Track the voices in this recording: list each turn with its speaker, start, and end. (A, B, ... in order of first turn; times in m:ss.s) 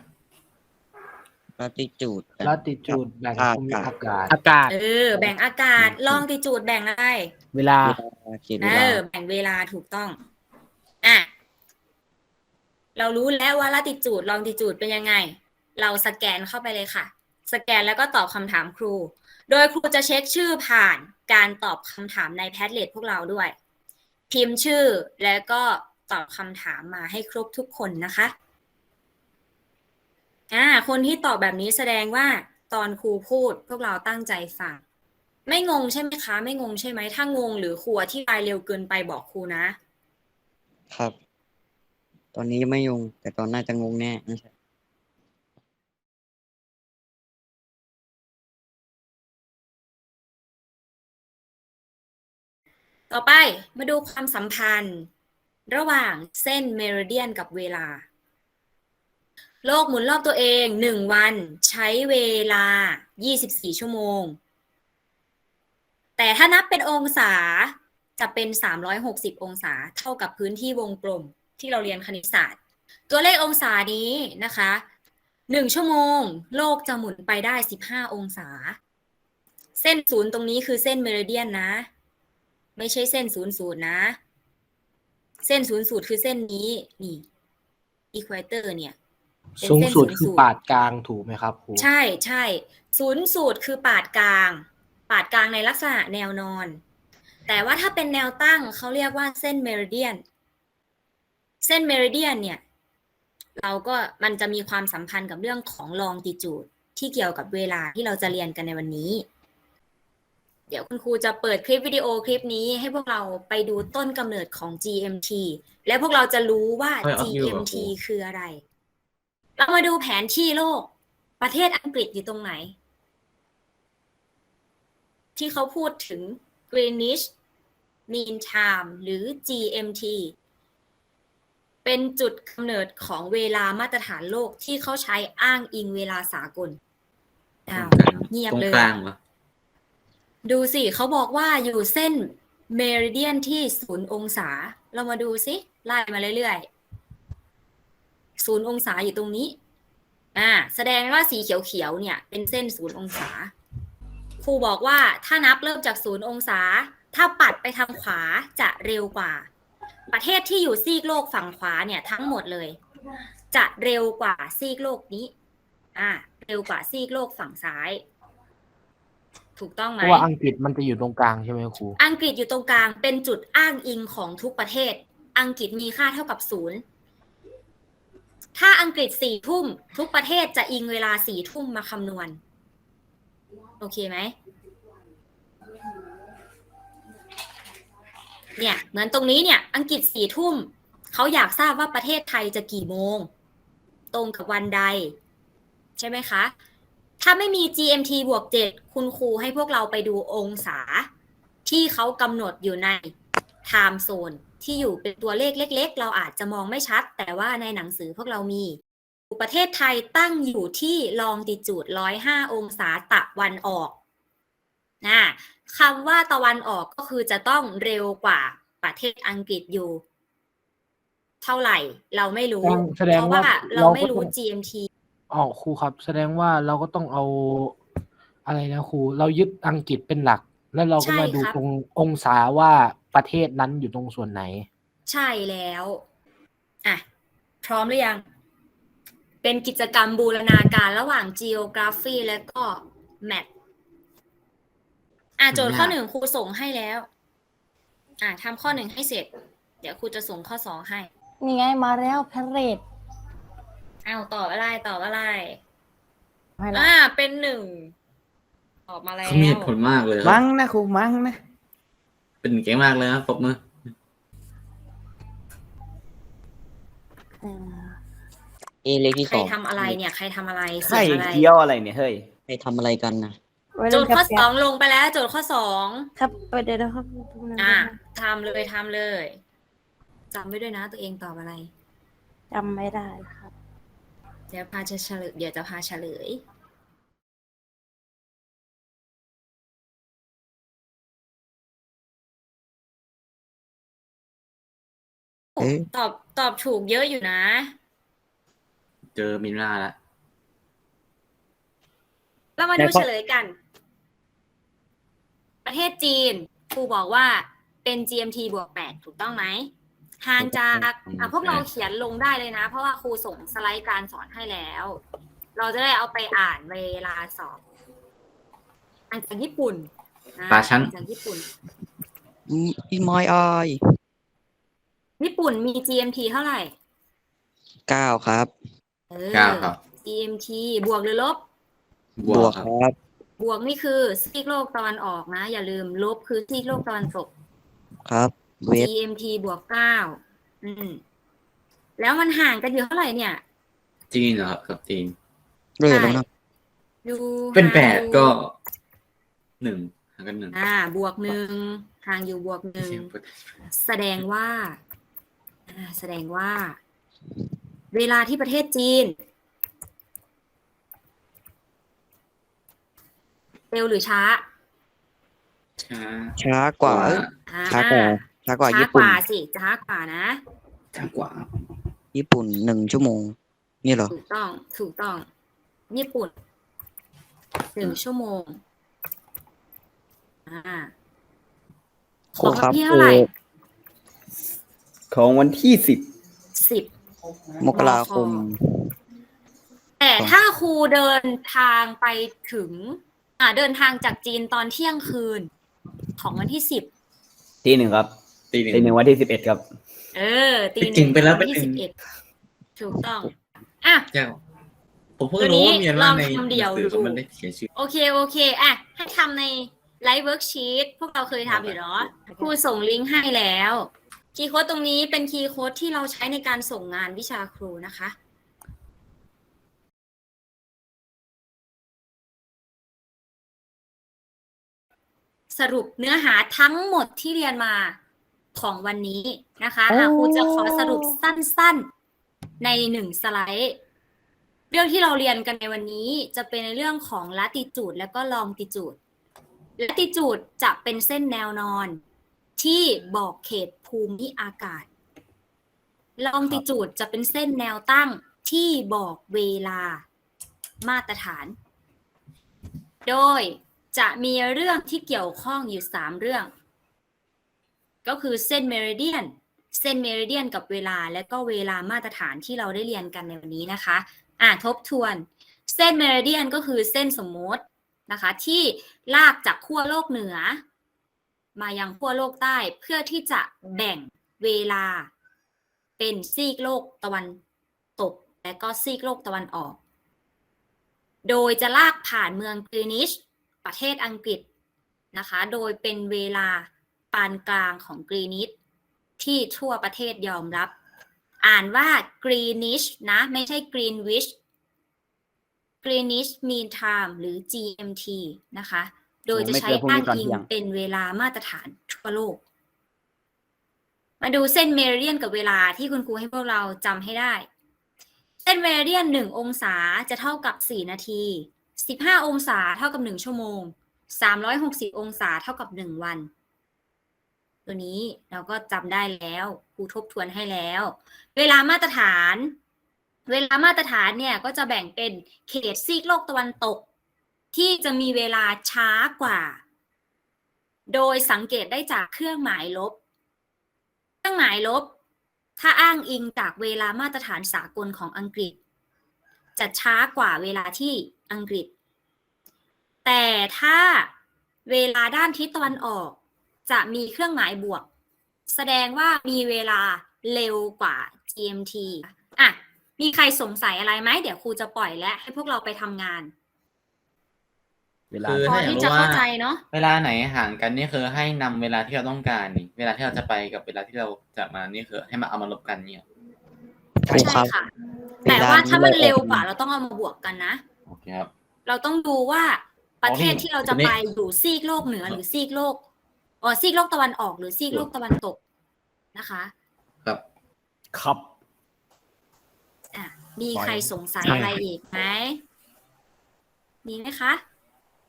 0:01.6-0:03.9 A
0:02.4-0:04.7 B
0:04.7-0:07.3 C
0:05.8-0:06.2 A
0:07.5-0:08.0 B
0:07.8-0:09.0 A
0:08.6-0:10.2 C
0:11.0-0:11.3 C
0:13.0-0:23.6 C
0:24.3-0:28.3 C
0:30.5-0:34.8 C
0:35.5-0:39.8 C
0:42.3-0:44.5 A
0:53.1-0:55.1 C
0:55.7-0:58.0 C
0:59.6-1:04.4 C
1:06.2-1:12.6 C
1:13.1-1:14.8 C
1:15.5-1:18.8 C
1:19.8-1:21.9 C
1:22.8-1:24.2 C
1:25.4-1:27.2 C
1:28.1-1:29.0 C
1:29.6-1:31.9 B
1:29.6-1:30.5 C
1:31.8-1:36.8 C
1:37.5-1:40.2 C
1:41.6-1:42.6 C
1:43.6-1:49.2 C
1:50.7-1:58.6 C
1:57.0-1:57.9 D
1:59.6-2:00.9 C
2:01.4-2:02.7 C
2:05.4-2:07.3 C
2:08.1-2:10.3 C
2:11.8-2:16.8 C
2:17.7-2:18.9 C
2:17.7-2:19.2 D
2:20.4-2:26.6 C
2:28.4-2:29.6 C
2:30.4-2:33.5 C
2:34.4-2:39.5 C
2:40.1-2:42.8 C
2:43.5-2:45.3 C
2:46.0-2:48.0 C
2:49.6-2:50.3 C
2:50.0-2:52.0 B
2:52.0-2:56.8 C
2:58.6-3:02.4 C
3:03.8-3:04.3 C
3:08.6-3:13.3 C
3:14.1-3:15.1 C
3:16.0-3:16.5 C
3:17.2-3:21.1 C
3:21.6-3:23.1 C
3:23.7-3:28.8 C
3:29.3-3:34.0 C
3:35.0-3:40.0 C
3:41.4-3:44.9 C
3:42.6-3:44.3 B
3:45.3-3:47.8 B
3:48.4-3:54.7 B
3:51.0-3:51.6 C
3:55.1-3:56.0 C
3:57.6-3:58.2 C
3:59.4-4:03.5 C
4:05.4-4:07.1 C
4:05.6-4:05.9 D
4:08.2-4:09.3 C
4:09.8-4:11.1 C
4:11.4-4:12.8 E
4:14.0-4:15.6 C
4:16.6-4:16.9 E
4:16.7-4:17.9 C
4:18.9-4:19.7 C
4:19.2-4:20.4 D
4:20.2-4:21.4 F
4:22.4-4:23.6 D
4:27.4-4:28.0 E
4:28.8-4:30.0 A
4:29.2-4:31.5 C
4:30.8-4:32.3 F
4:32.5-4:33.4 A
4:33.8-4:34.5 E
4:33.9-4:36.1 C
4:36.2-4:38.0 E
4:37.6-4:39.4 C
4:40.3-4:41.7 C
4:42.5-4:43.5 E
4:44.5-4:46.4 C
4:55.6-4:57.7 C
4:55.6-4:55.9 A
4:59.2-5:00.0 D
5:02.6-5:03.6 C
5:02.8-5:03.1 A
5:05.6-5:09.7 C
5:10.2-5:15.0 C
5:10.4-5:10.9 A
5:11.1-5:11.7 D
5:15.6-5:17.6 C
5:19.1-5:21.4 C
5:20.5-5:20.9 D
5:22.5-5:23.8 A
5:25.2-5:26.7 C
5:27.9-5:28.5 A
5:29.1-5:31.4 C
5:29.3-5:29.8 D
5:32.2-5:32.7 D
5:32.3-5:33.0 A
5:33.4-5:37.3 C
5:38.1-5:38.9 A
5:38.7-5:41.0 C
5:42.0-5:43.4 C
5:44.1-5:45.2 D
5:45.8-5:46.2 A
5:45.9-5:46.2 C
5:47.0-5:48.4 C
5:47.5-5:48.6 D
5:49.6-5:50.6 D
5:50.5-5:53.1 C
5:52.8-5:53.2 D
5:53.7-5:54.8 C
5:55.7-5:56.8 C
5:57.9-5:59.2 C
6:03.7-6:04.4 C
6:05.8-6:07.3 D
6:06.4-6:09.2 A
6:07.5-6:10.4 C
6:11.0-6:11.5 D
6:12.1-6:14.1 A
6:14.1-6:15.3 C
6:15.9-6:16.3 C
6:17.8-6:18.6 C
6:20.5-6:20.9 C
6:22.4-6:23.3 A
6:22.4-6:23.3 C
6:25.1-6:26.0 F
6:26.6-6:26.9 C
6:27.6-6:28.6 A
6:27.7-6:28.4 C
6:30.0-6:35.5 C
6:36.2-6:36.9 C
6:37.6-6:38.1 F
6:38.5-6:38.9 D
6:38.7-6:39.6 F
6:40.1-6:42.0 C
6:40.8-6:41.8 D
6:42.8-6:44.1 C
6:44.1-6:44.4 D
6:45.2-6:47.7 D
6:45.4-6:47.2 C
6:47.8-6:58.2 C
6:51.5-6:51.8 D
7:05.5-7:08.0 C
7:08.6-7:11.9 C
7:09.9-7:11.1 E
7:12.6-7:13.8 C
7:14.7-7:19.0 C
7:19.8-7:22.0 C
7:22.6-7:24.9 C
7:26.2-7:30.0 C
7:30.8-7:31.6 C
7:33.0-7:36.5 C
7:38.0-7:50.6 C
7:51.6-7:55.1 C
7:56.0-7:57.4 C
7:58.0-7:59.8 C
8:01.2-8:04.4 C
8:05.1-8:08.5 C
8:09.2-8:10.7 C
8:11.4-8:14.4 C
8:15.8-8:22.4 C
8:19.3-8:20.5 F
8:24.2-8:27.5 C
8:28.4-8:36.3 C
8:37.7-8:42.6 C
8:43.3-8:46.9 C
8:47.5-8:49.6 C
8:50.9-8:53.0 C
8:54.2-8:54.9 C
8:55.6-8:58.6 C
8:59.6-9:01.7 C
9:03.0-9:04.1 C
9:04.7-9:07.9 C
9:08.5-9:16.3 C
9:18.1-9:18.8 F
9:18.2-9:26.0 D
9:18.4-9:19.6 C
9:27.0-9:27.5 A
9:27.1-9:27.7 C
9:28.2-9:29.5 A
9:28.3-9:30.6 C
9:30.9-9:31.3 D
9:31.7-9:35.8 C
9:33.0-9:34.0 D
9:36.4-9:38.4 C
9:39.1-9:39.5 C
9:40.9-9:41.2 F
9:42.9-9:45.4 C
9:43.6-9:43.9 F
9:44.2-9:44.6 A
9:46.8-9:47.4 C